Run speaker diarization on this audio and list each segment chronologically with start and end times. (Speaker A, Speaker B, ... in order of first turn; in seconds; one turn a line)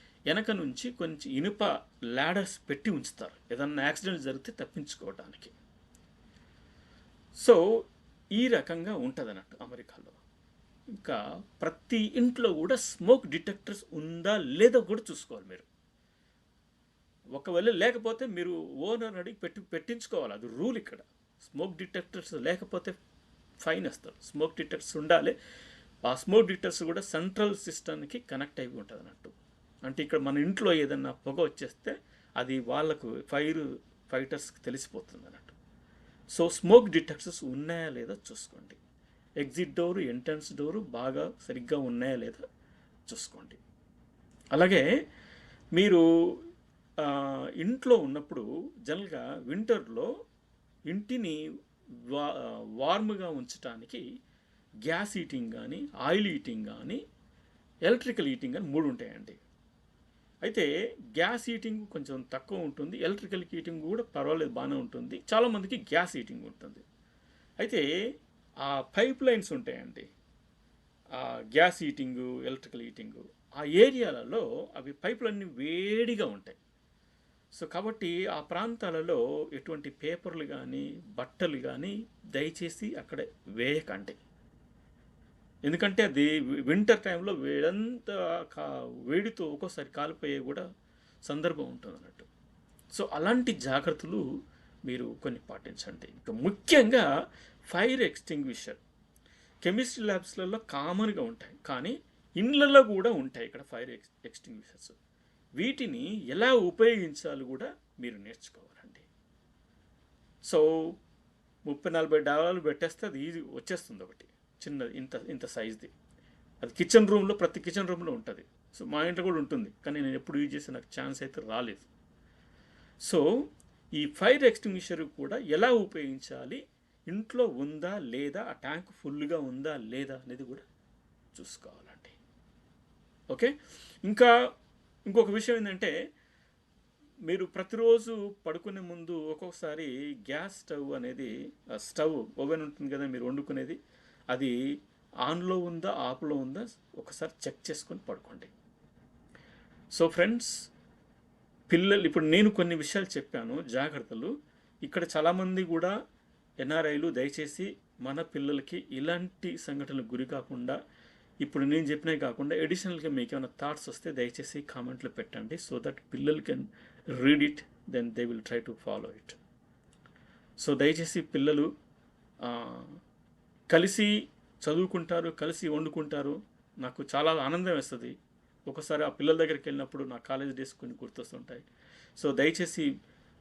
Speaker A: 0.3-5.5
Speaker A: 8.4-10.2
Speaker A: 11.0-15.7
Speaker A: 17.4-22.9
Speaker A: 23.6-25.4
Speaker A: 26.1-29.4
Speaker A: 29.9-35.5
Speaker A: 36.4-38.8
Speaker A: 39.4-42.4
Speaker A: 43.1-43.6
Speaker A: 44.5-44.8
Speaker A: 45.8-46.0
Speaker A: 47.0-50.1
Speaker A: 50.9-51.4
Speaker A: 52.1-54.0
Speaker A: 54.9-57.0
Speaker A: 57.9-59.4
Speaker A: 60.5-66.8
Speaker A: 68.7-70.1
Speaker A: 71.2-76.6
Speaker A: 77.5-84.2
Speaker A: 85.7-90.6
Speaker A: 91.3-92.3
Speaker A: 92.9-94.2
Speaker A: 94.9-97.1
Speaker A: 97.7-98.8
Speaker A: 99.7-105.0
Speaker A: 105.6-109.1
Speaker A: 111.7-115.9
Speaker A: 116.6-121.9
Speaker A: 124.0-130.7
Speaker A: 131.3-132.2
Speaker A: 135.1-135.9
Speaker A: 137.3-143.8
Speaker A: 145.3-148.5
Speaker A: 149.9-150.5
Speaker A: 151.7-154.3
Speaker A: 154.8-155.9
Speaker A: 156.6-160.8
Speaker A: 161.4-166.7
Speaker A: 167.2-169.4
Speaker A: 170.6-171.7
Speaker A: 172.4-173.0
Speaker A: 173.7-174.1
Speaker A: 174.6-178.1
Speaker A: 178.7-182.9